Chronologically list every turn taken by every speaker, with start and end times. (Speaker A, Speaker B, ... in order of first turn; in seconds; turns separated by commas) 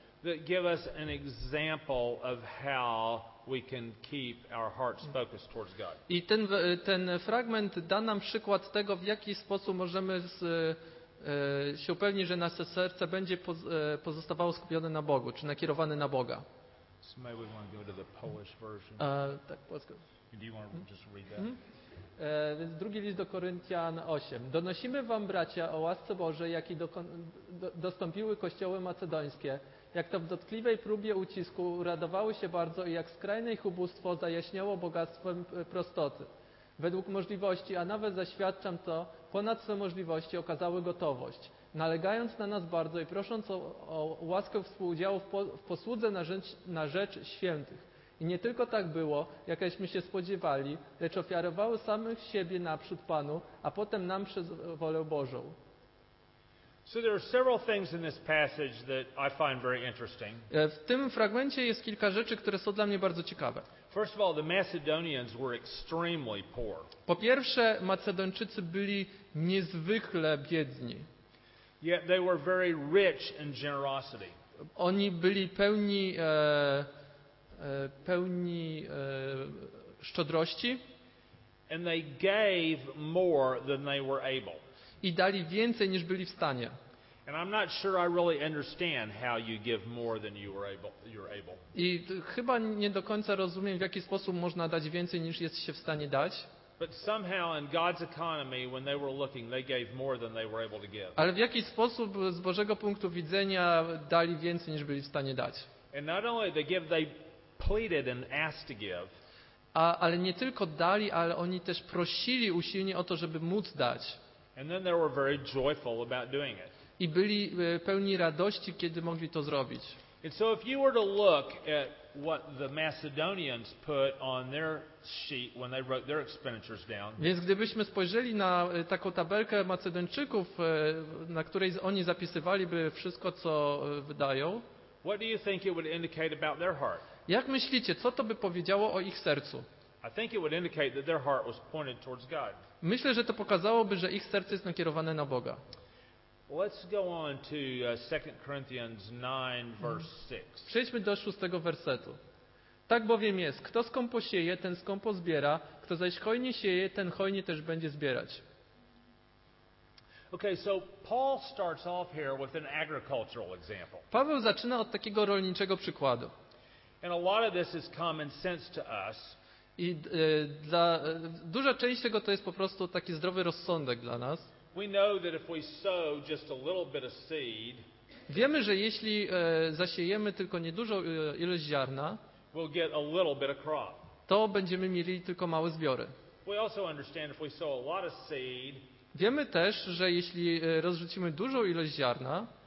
Speaker A: 0.2-6.0, Speaker B: 6.1-16.4, Speaker A: 17.0-19.0, Speaker B: 19.0-20.0, Speaker A: 20.3-21.5, Speaker B: 22.2-55.5, Speaker A: 56.9-60.5, Speaker B: 60.5-63.7, Speaker A: 63.9-66.9, Speaker B: 67.1-71.1, Speaker A: 71.8-74.3, Speaker B: 74.8-76.9, Speaker B: 77.6-80.8, Speaker A: 81.7-84.6, Speaker B: 85.0-86.8, Speaker A: 87.3-91.6, Speaker B: 91.7-96.5, Speaker A: 96.8-101.2, Speaker B: 101.2-105.7, Speaker A: 105.9-109.1, Speaker B: 109.7-114.2, Speaker A: 114.5-116.7, Speaker B: 117.0-120.0, Speaker A: 120.2-127.2, Speaker B: 127.2-134.6, Speaker A: 135.0-137.0, Speaker B: 137.3-139.7, Speaker A: 140.0-142.6, Speaker B: 142.8-145.6, Speaker A: 146.5-150.7, Speaker B: 150.7-152.2, Speaker B: 152.9-158.4, Speaker A: 160.3-164.0, Speaker B: 164.1-166.3, Speaker A: 167.0-169.4, Speaker B: 169.8-174.5, Speaker A: 174.7-177.8, Speaker B: 178.3-182.2, Speaker A: 182.5-184.0, Speaker B: 184.3-186.1, Speaker A: 186.4-188.8, Speaker B: 189.1-192.5